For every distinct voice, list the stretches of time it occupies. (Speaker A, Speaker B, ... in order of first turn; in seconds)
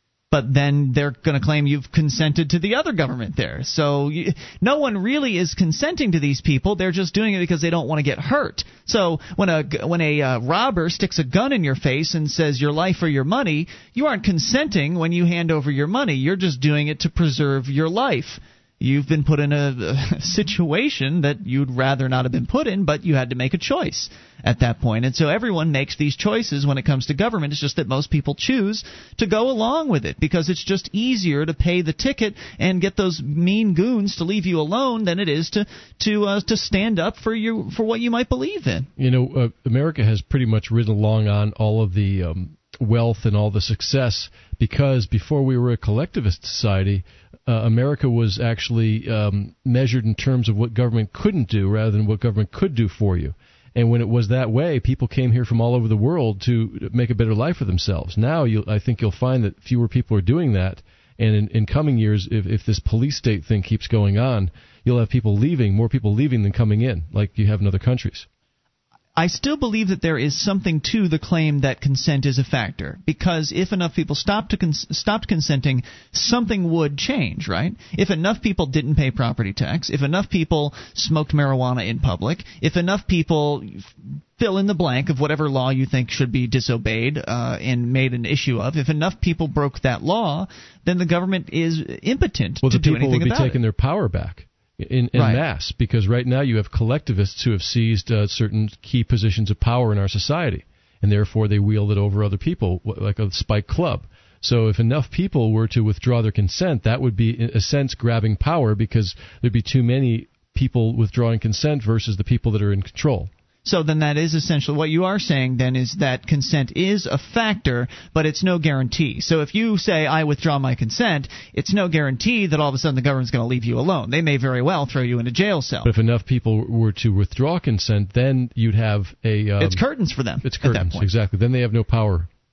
Speaker A: 0.3-38.9, 69.2-93.6, 95.1-95.4, 113.6-125.9, 129.6-131.1
Speaker B: 39.0-68.2, 92.6-113.3, 125.8-129.8, 130.4-132.3